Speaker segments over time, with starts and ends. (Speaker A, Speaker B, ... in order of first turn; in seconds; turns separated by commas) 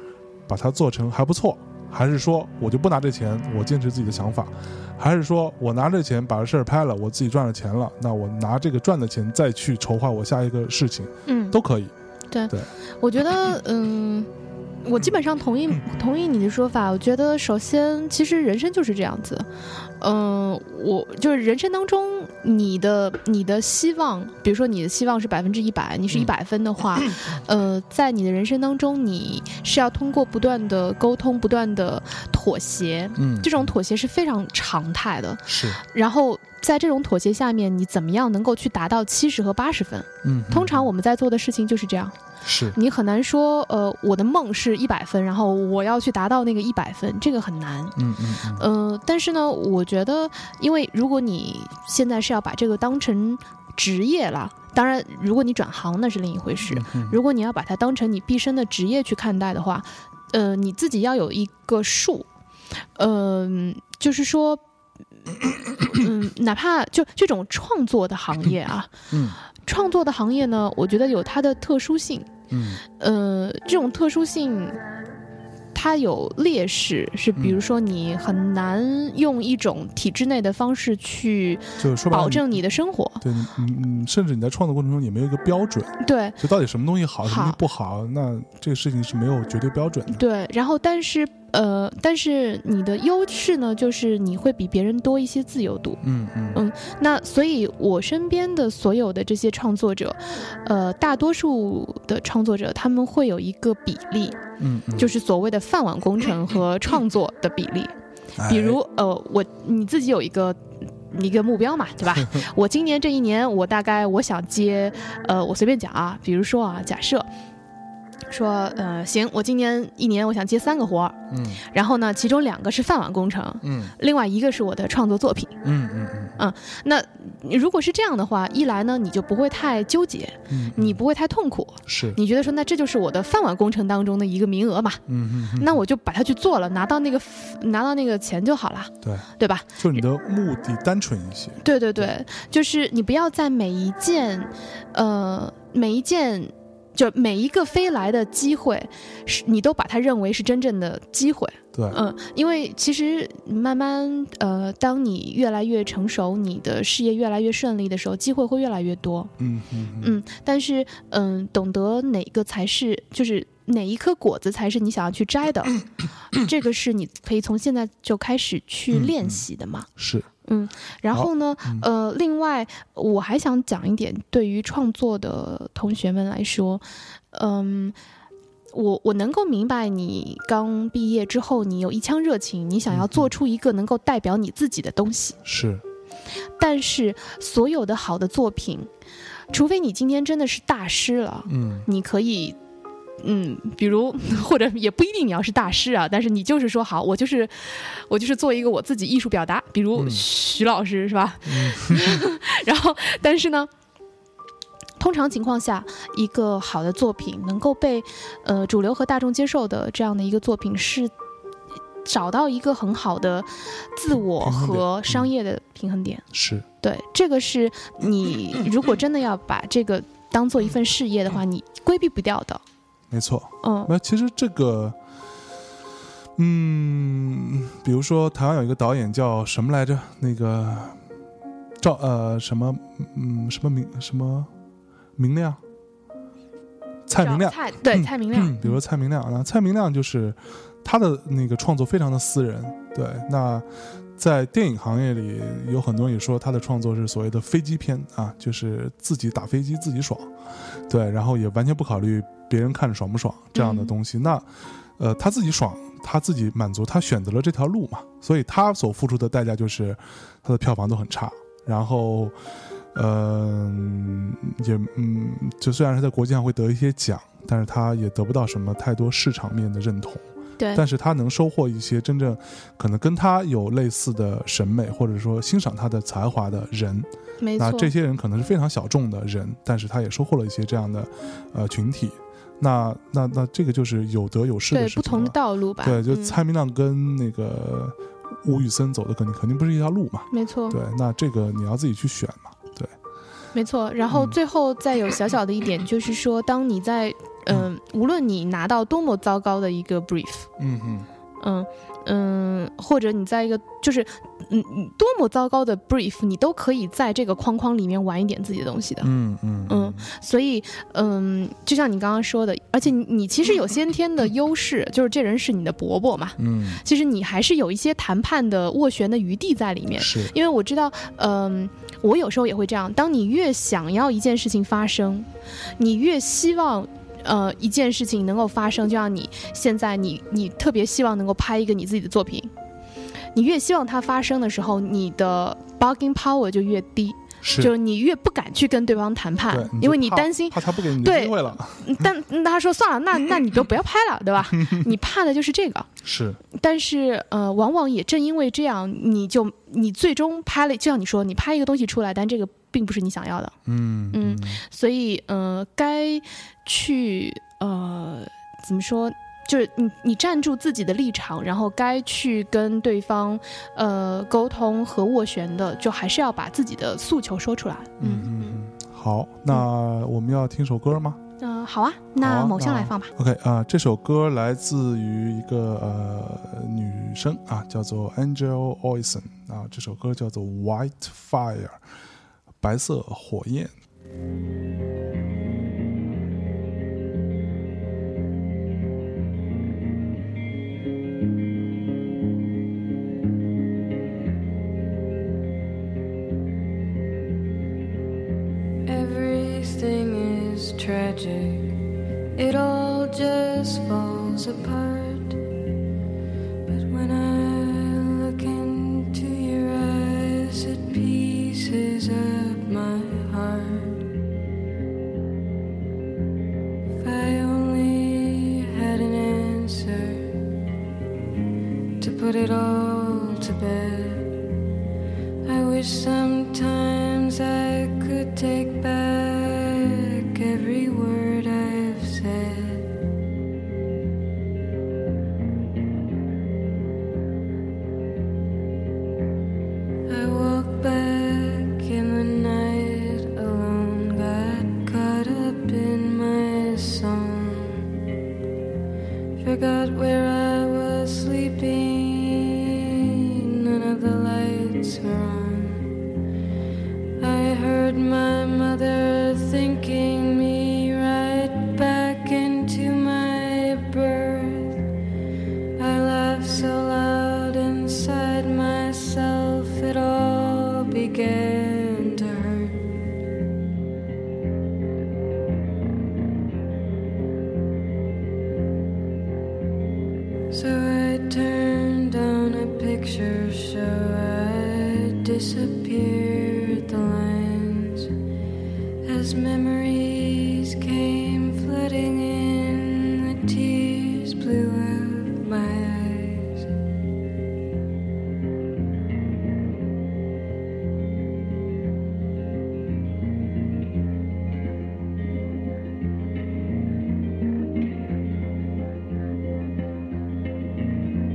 Speaker A: 0.5-11.9, Speaker B: 11.3-11.6, Speaker B: 12.3-14.3, Speaker B: 14.8-19.5, Speaker B: 20.0-42.1, Speaker A: 33.2-33.7, Speaker A: 35.5-35.8, Speaker A: 40.2-40.9, Speaker A: 42.4-42.8, Speaker B: 42.7-48.0, Speaker A: 48.0-48.6, Speaker B: 48.5-62.3, Speaker A: 56.7-57.2, Speaker B: 63.0-64.6, Speaker B: 65.8-68.9, Speaker A: 69.1-69.4, Speaker B: 69.6-72.3, Speaker A: 72.5-72.8, Speaker B: 73.0-74.8, Speaker B: 75.7-83.2, Speaker A: 77.3-77.6, Speaker A: 81.8-82.6, Speaker A: 83.2-90.2, Speaker B: 86.0-86.4, Speaker B: 87.2-87.6, Speaker B: 90.1-96.0, Speaker A: 96.0-96.6, Speaker B: 96.5-104.4, Speaker A: 104.6-105.1, Speaker B: 105.0-107.9, Speaker A: 108.4-108.8, Speaker B: 108.5-110.6, Speaker B: 111.1-117.3, Speaker B: 118.3-125.6, Speaker A: 121.3-121.6, Speaker A: 123.6-123.9, Speaker A: 125.6-126.3, Speaker B: 126.4-135.0, Speaker A: 130.5-131.0, Speaker A: 131.9-132.2, Speaker A: 135.1-135.8, Speaker B: 135.5-139.8, Speaker A: 139.0-139.3, Speaker A: 139.8-142.1, Speaker B: 141.6-159.3, Speaker A: 151.7-152.0, Speaker A: 159.4-160.2, Speaker B: 160.0-165.8, Speaker B: 166.3-169.9, Speaker A: 168.9-169.4, Speaker A: 170.0-170.3, Speaker B: 170.4-177.9, Speaker A: 171.1-171.8, Speaker B: 178.7-185.4, Speaker A: 182.9-183.3, Speaker A: 185.4-185.8, Speaker B: 186.6-188.9, Speaker B: 189.5-192.6, Speaker A: 191.5-191.9, Speaker B: 193.2-203.7, Speaker A: 199.9-200.2, Speaker A: 201.5-202.2, Speaker B: 205.0-211.1, Speaker B: 212.0-216.2, Speaker A: 214.4-215.3, Speaker A: 216.3-216.7, Speaker B: 216.8-222.6, Speaker A: 223.1-224.9, Speaker B: 223.6-223.9, Speaker A: 226.4-231.0, Speaker A: 231.8-234.5, Speaker A: 235.2-235.6, Speaker A: 237.1-243.7, Speaker B: 237.2-238.8, Speaker A: 244.2-250.3, Speaker A: 250.9-254.4, Speaker B: 253.5-253.9, Speaker A: 255.0-262.3, Speaker A: 262.9-292.9, Speaker B: 277.4-277.9, Speaker B: 284.7-286.4, Speaker B: 290.3-290.8, Speaker B: 293.5-300.5, Speaker A: 294.1-294.4, Speaker A: 300.6-301.1, Speaker B: 301.4-309.1, Speaker A: 309.0-310.1, Speaker B: 309.7-332.5, Speaker A: 316.4-316.8, Speaker A: 320.0-320.3, Speaker B: 333.3-345.9, Speaker A: 337.4-337.7, Speaker A: 339.5-342.0, Speaker A: 346.0-346.4, Speaker B: 346.5-353.5, Speaker A: 353.6-354.6, Speaker B: 354.1-368.6, Speaker A: 368.0-371.2, Speaker B: 371.4-373.1, Speaker A: 372.2-381.8, Speaker A: 382.6-383.7, Speaker C: 398.8-401.8, Speaker C: 402.4-405.4, Speaker C: 406.6-414.1, Speaker C: 417.0-420.4, Speaker C: 422.0-424.4, Speaker C: 425.4-432.9, Speaker C: 440.1-447.9, Speaker C: 449.4-456.0, Speaker C: 457.2-464.8, Speaker C: 465.8-473.0, Speaker C: 480.5-488.1, Speaker C: 489.0-496.7